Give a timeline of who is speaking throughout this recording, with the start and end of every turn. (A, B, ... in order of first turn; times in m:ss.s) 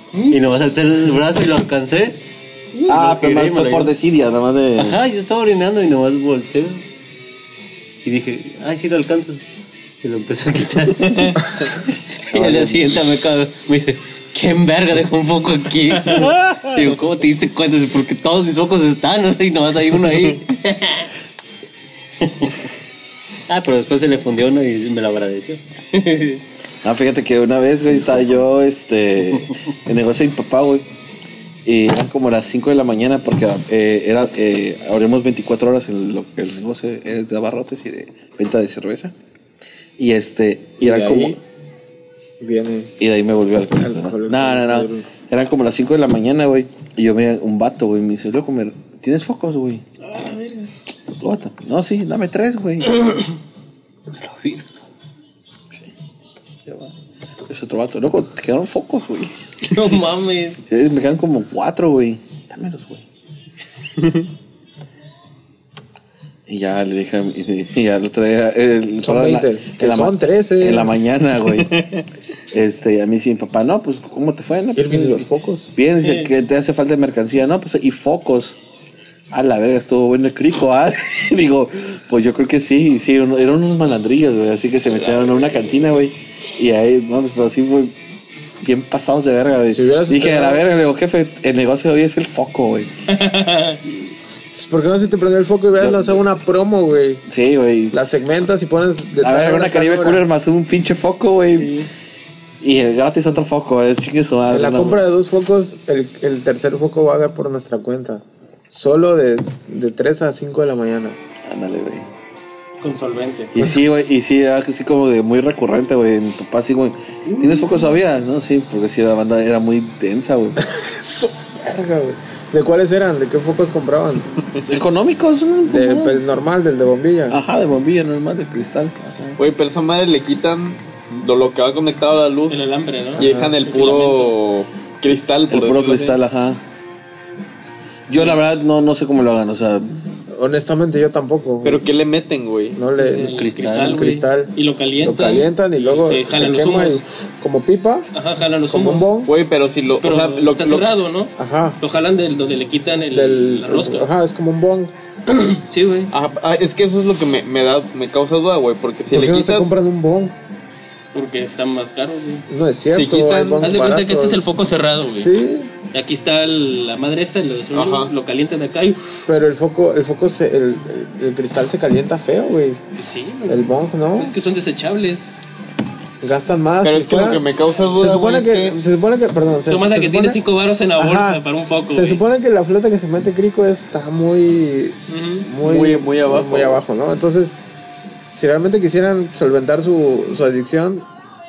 0:00.1-0:00.4 A
0:00.3-0:02.2 B
0:02.8-0:03.9 B
0:02.9-0:05.0 C
0:04.8-0:06.8 B
0:08.0-0:09.4 B
0:10.0-0:11.5 B
0:12.3-0:21.1 B
0:12.3-0:13.0 C
0:22.2-0:22.6 B
0:23.5-0:25.6 B
0:25.9-0:26.4 A
0:26.8-0:30.8 C
0:31.6-0:39.1 C
0:40.0-0:41.4 C
0:40.8-0:41.4 D
0:42.4-0:42.9 D
0:43.0-0:49.8 C
0:43.6-0:45.0 D
0:50.0-0:50.7 A
0:51.1-0:53.2 C
0:54.3-0:54.6 C
0:57.5-0:59.5 C
0:59.7-1:00.6 A
1:00.7-1:03.0 C
1:06.5-1:11.8 C
1:09.0-1:10.9 D
1:11.7-1:11.9 E
1:12.5-1:18.6 C
1:14.7-1:15.7 D
1:16.0-1:16.3 A
1:19.3-1:27.9 C
1:28.6-1:32.9 C
1:29.7-1:30.6 D
1:33.1-1:33.8 A
1:34.5-1:37.2 D
1:35.7-1:36.2 C
1:37.2-1:38.0 C
1:37.9-1:40.2 D
1:39.2-1:41.8 C
1:41.6-1:41.9 A
1:42.6-1:45.0 C
1:44.5-1:51.2 D
1:51.4-1:52.1 C
1:52.8-1:53.5 A
1:53.5-2:00.6 C
2:00.6-2:04.4 D
2:04.6-2:06.2 C
2:05.6-2:07.4 D
2:07.3-2:09.4 C
2:09.4-2:16.2 E
2:12.5-2:14.4 A
2:13.2-2:13.6 D
2:15.5-2:16.6 C
2:18.1-2:20.0 C
2:20.3-2:21.8 D
2:21.6-2:22.8 E
2:22.8-2:28.1 D
2:23.0-2:27.0 A
2:23.2-2:24.0 B
2:28.1-2:29.1 A
2:28.7-2:29.3 D
2:29.2-2:30.9 E
2:30.0-2:34.1 A
2:31.4-2:31.8 D
2:33.1-2:34.9 D
2:35.3-2:36.1 A
2:36.1-2:39.7 E
2:39.1-2:40.3 D
2:41.1-2:42.4 A
2:42.5-2:44.4 D
2:42.9-2:43.8 E
2:43.6-2:45.3 A
2:45.2-2:45.7 D
2:45.9-2:49.2 A
2:47.7-2:48.1 E
2:49.2-2:52.8 D
2:52.9-2:55.3 A
2:53.5-2:54.4 D
2:56.2-3:00.4 D
2:56.8-2:58.8 E
2:59.6-3:02.2 A
3:01.0-3:07.6 D
3:05.1-3:05.5 A
3:05.6-3:06.8 E
3:08.3-3:11.0 D